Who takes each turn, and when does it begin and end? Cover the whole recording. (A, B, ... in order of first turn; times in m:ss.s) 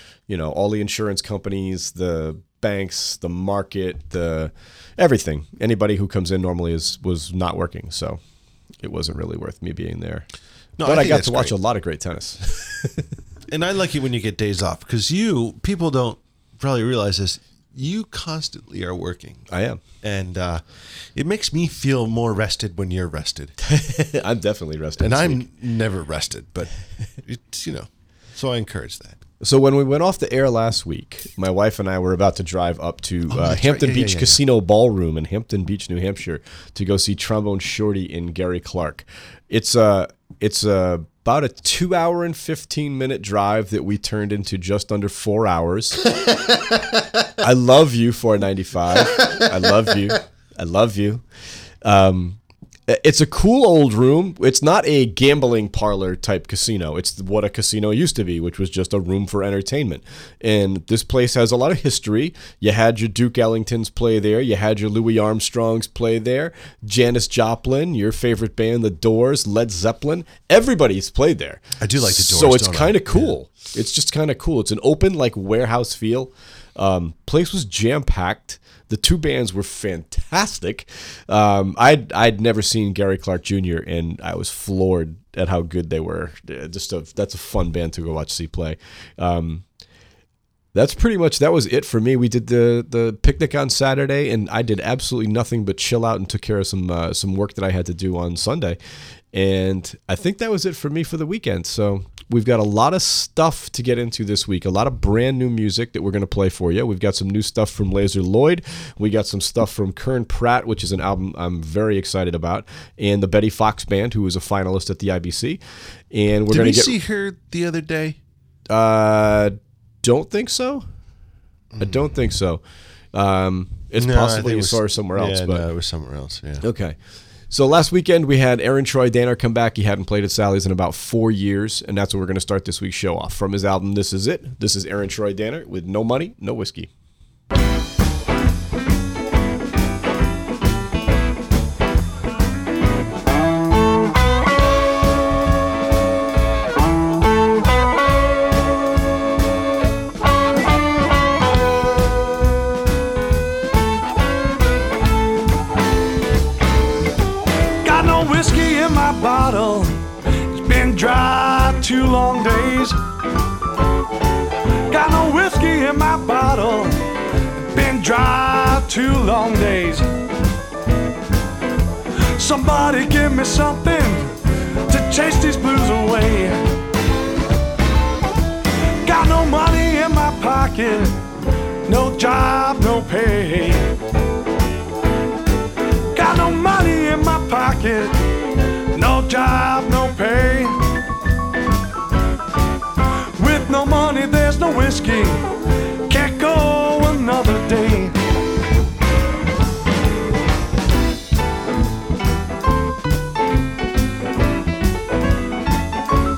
0:00.3-0:08.2 A
0:08.8-0:10.3 A
0:10.8-0:11.6 B
0:10.8-0:13.0 A
0:13.5-0:19.5 B
0:19.5-0:19.8 A
0:20.0-0:23.5 B
0:23.6-0:25.4 A
0:25.0-0:26.7 B
0:27.2-0:29.2 B
0:29.4-0:46.1 A
0:33.3-0:34.4 B
0:47.4-0:51.2 A
0:51.8-1:29.6 A
1:11.8-1:13.4 B
1:30.7-1:38.8 A
1:39.3-1:55.6 A
1:56.1-1:56.9 A
1:56.5-1:58.2 B
1:58.7-2:00.8 A
2:01.7-2:02.0 B
2:01.8-2:02.6 A
2:03.1-2:05.6 A
2:03.9-2:06.6 B
2:06.6-2:07.0 A
2:07.5-2:16.9 A
2:37.8-2:40.0 C
2:40.5-2:43.0 C
2:44.9-2:47.0 C
2:47.6-2:50.1 C
2:52.4-2:54.4 C
2:54.9-2:56.6 C
2:59.0-3:01.2 C
3:01.8-3:03.9 C
3:06.1-3:08.2 C
3:08.9-3:10.8 C
3:13.4-3:15.5 C
3:16.1-3:18.2 C